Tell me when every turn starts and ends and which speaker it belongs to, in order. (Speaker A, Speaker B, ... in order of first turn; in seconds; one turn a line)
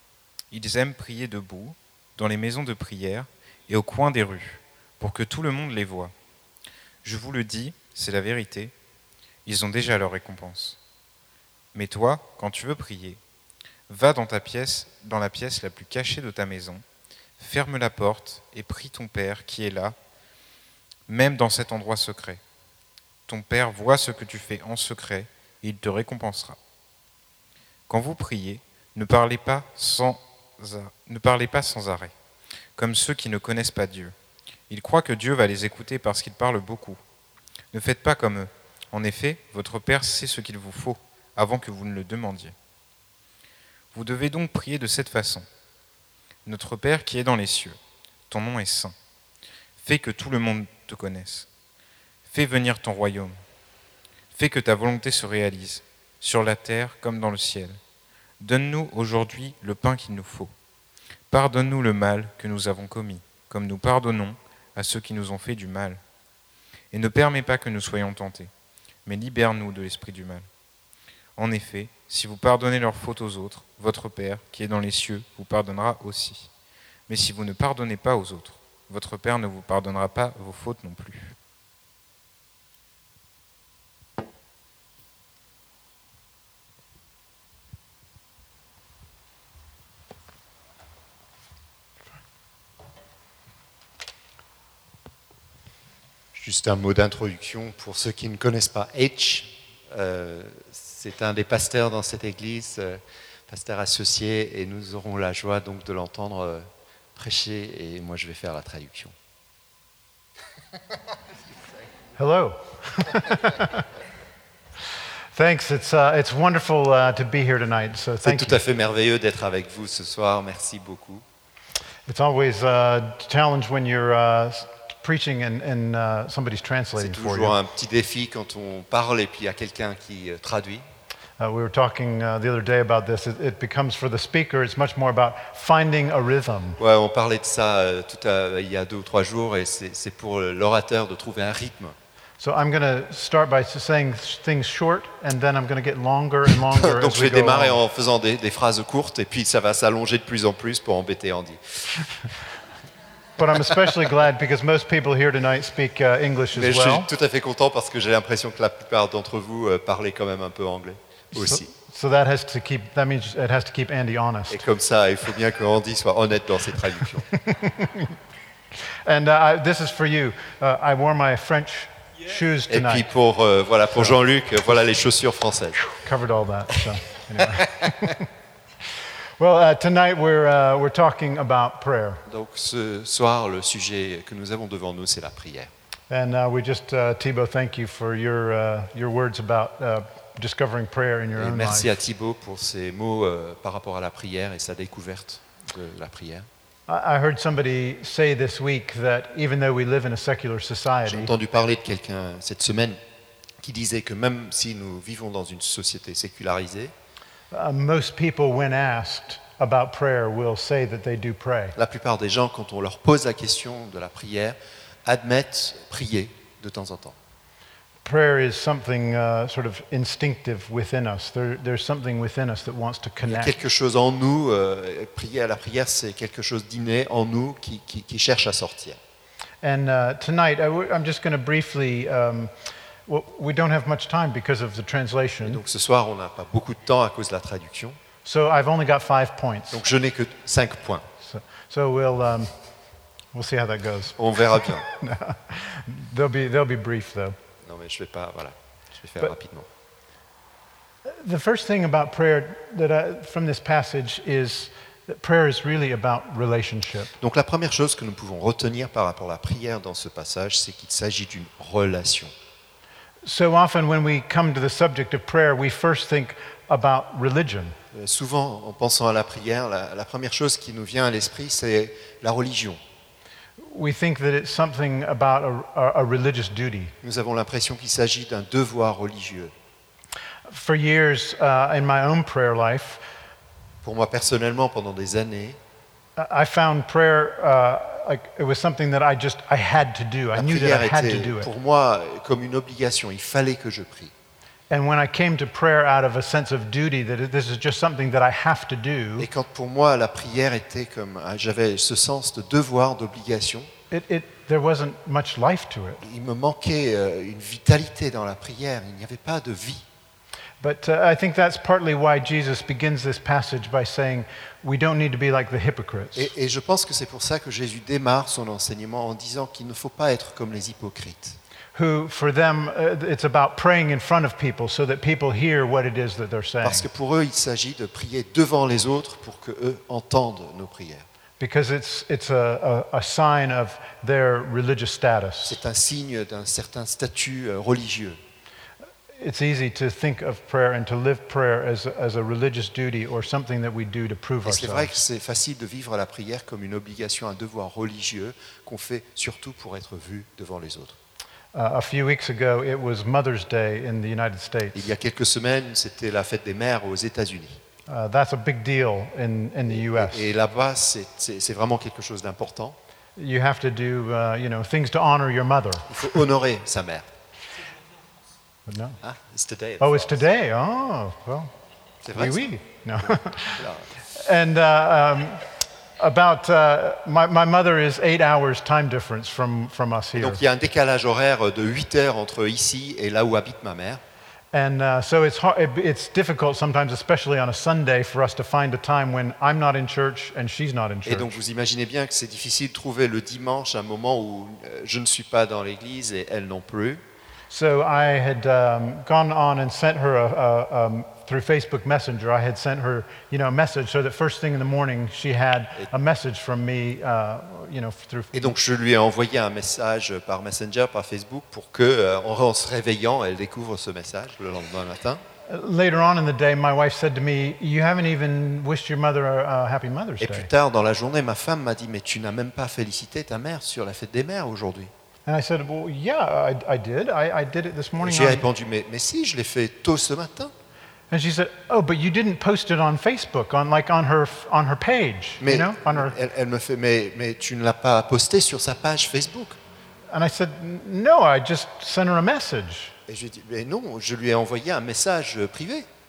Speaker A: 0.5-6.1
Speaker A: 7.0-8.7
Speaker A: 9.4-10.8
Speaker A: 11.7-13.2
Speaker A: 13.9-16.8
Speaker A: 17.4-19.9
Speaker A: 21.1-22.4
Speaker A: 23.3-26.6
Speaker A: 27.9-32.1
Speaker A: 32.8-34.1
Speaker A: 34.7-37.0
Speaker A: 37.7-42.5
Speaker A: 43.9-45.5
Speaker A: 46.5-47.8
Speaker A: 48.3-48.9
Speaker A: 49.8-51.5
Speaker A: 52.3-53.4
Speaker A: 54.3-57.8
Speaker A: 58.4-60.5
Speaker A: 61.3-66.0
Speaker A: 66.9-68.5
Speaker A: 69.0-70.5
Speaker A: 71.4-76.5
Speaker A: 77.1-81.3
Speaker B: 96.3-109.1
Speaker C: 112.2-113.9
Speaker C: 115.3-118.6
Speaker B: 118.2-121.2
Speaker C: 122.1-127.6
Speaker B: 127.0-130.8
Speaker C: 131.4-136.8
Speaker B: 136.8-141.9
Speaker C: 142.4-147.8
Speaker B: 146.5-152.1
Speaker C: 153.4-157.1
Speaker B: 156.5-161.7
Speaker C: 161.3-164.7
Speaker B: 164.5-167.2
Speaker C: 167.3-168.1
Speaker C: 169.0-173.1
Speaker B: 172.7-175.8
Speaker C: 175.8-178.3
Speaker C: 179.4-182.2
Speaker B: 182.3-185.7
Speaker C: 186.1-192.0
Speaker B: 191.3-196.5
Speaker C: 196.9-201.3
Speaker B: 201.0-203.0
Speaker B: 203.6-206.9
Speaker C: 207.5-211.8
Speaker B: 211.8-217.2
Speaker C: 218.0-223.6
Speaker B: 223.2-229.0
Speaker C: 229.6-232.5
Speaker C: 233.1-235.6
Speaker B: 235.4-238.0
Speaker C: 238.2-239.8
Speaker B: 239.7-241.1
Speaker C: 241.2-242.5
Speaker C: 243.3-247.3
Speaker B: 244.2-244.8
Speaker B: 247.6-249.7
Speaker C: 251.1-257.1
Speaker B: 257.2-262.3
Speaker C: 263.2-267.8
Speaker B: 267.9-272.8
Speaker C: 273.6-276.9
Speaker B: 277.0-279.5
Speaker C: 280.5-283.0
Speaker B: 283.8-285.6
Speaker C: 286.2-291.5
Speaker B: 290.3-294.1
Speaker C: 294.7-299.3
Speaker B: 299.2-303.7
Speaker C: 303.9-306.0
Speaker B: 306.0-309.8
Speaker C: 310.6-316.3
Speaker B: 316.1-321.4
Speaker C: 321.7-326.9
Speaker B: 326.6-331.1
Speaker C: 331.4-335.6
Speaker B: 335.4-338.2
Speaker C: 339.2-345.0
Speaker B: 344.4-350.9
Speaker C: 351.5-354.9
Speaker B: 354.7-357.6
Speaker C: 357.9-360.3
Speaker B: 359.7-362.8
Speaker C: 363.1-366.0
Speaker B: 365.9-367.1
Speaker C: 368.7-369.0
Speaker B: 369.0-370.3
Speaker C: 369.8-371.5
Speaker B: 372.0-373.9
Speaker C: 372.1-375.5
Speaker C: 376.0-380.4
Speaker B: 380.1-384.0
Speaker C: 384.5-391.4
Speaker B: 391.0-397.0
Speaker C: 397.5-408.5
Speaker B: 408.3-415.2
Speaker C: 415.4-420.5
Speaker B: 420.2-424.9
Speaker C: 425.2-428.4
Speaker B: 428.0-430.5
Speaker C: 431.1-436.1
Speaker B: 435.4-439.6
Speaker C: 440.1-442.9
Speaker B: 443.1-445.9